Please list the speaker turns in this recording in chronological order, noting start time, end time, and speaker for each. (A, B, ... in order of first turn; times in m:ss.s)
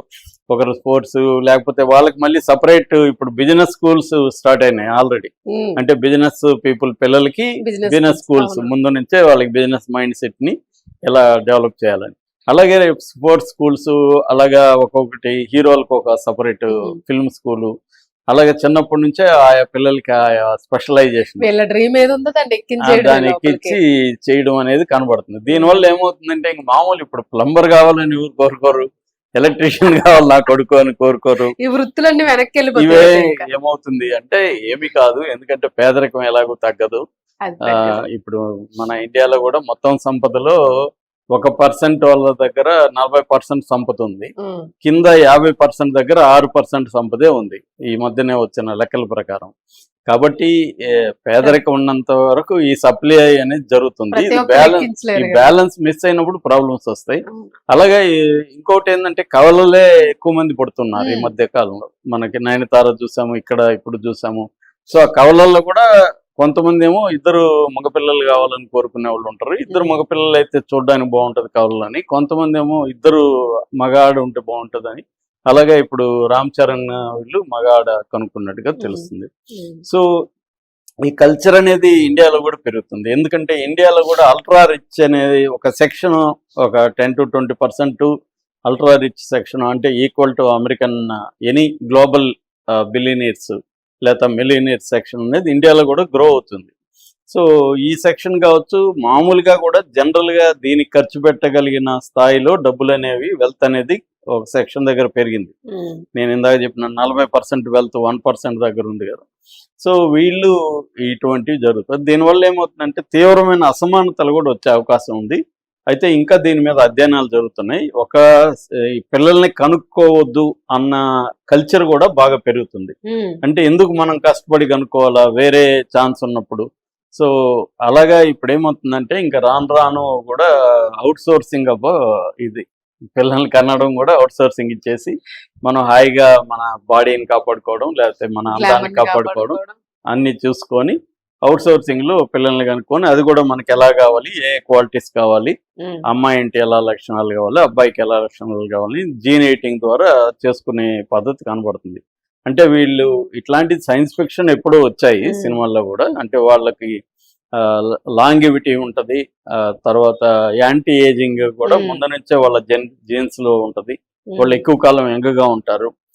0:00.5-0:10.6 A
0:05.5-0:05.8 B
0:07.6-0:08.7 B
0:11.1-0:17.7 A
0:18.3-0:21.5 A
0:21.4-0:23.8 B
0:22.9-0:28.9 A
0:25.5-0:25.8 B
0:29.4-0:31.5 A
0:31.6-0:33.5 B
0:32.8-0:37.0 A
0:37.4-0:38.0 B
0:37.7-0:40.6 A
0:41.4-0:44.3 A
0:44.4-0:44.7 B
0:44.8-0:49.5 A
0:50.1-0:57.2 A
0:54.1-0:55.5 B
0:57.3-0:57.5 B
0:57.7-0:58.0 A
0:58.6-1:13.2 A
1:01.0-1:01.3 B
1:13.8-1:19.3 A
1:18.8-1:19.8 B
1:21.0-1:28.1 A
1:28.7-1:32.3 A
1:32.8-1:36.7 A
1:37.3-1:45.5 A
1:45.7-1:46.0 B
1:46.2-1:49.2 A
1:49.8-1:50.5 A
1:51.0-1:55.4 A
1:55.9-1:58.2 A
1:59.0-2:06.7 A
2:03.1-2:03.4 B
2:07.9-2:10.5 A
2:11.0-2:11.9 A
2:13.2-2:19.6 A
2:18.6-2:19.8 B
2:20.1-2:21.0 A
2:21.5-2:25.6 A
2:26.1-2:36.9 A
2:35.3-2:35.6 B
2:37.6-2:39.2 A
2:39.8-2:45.9 A
2:41.7-2:42.0 B
2:44.3-2:44.6 B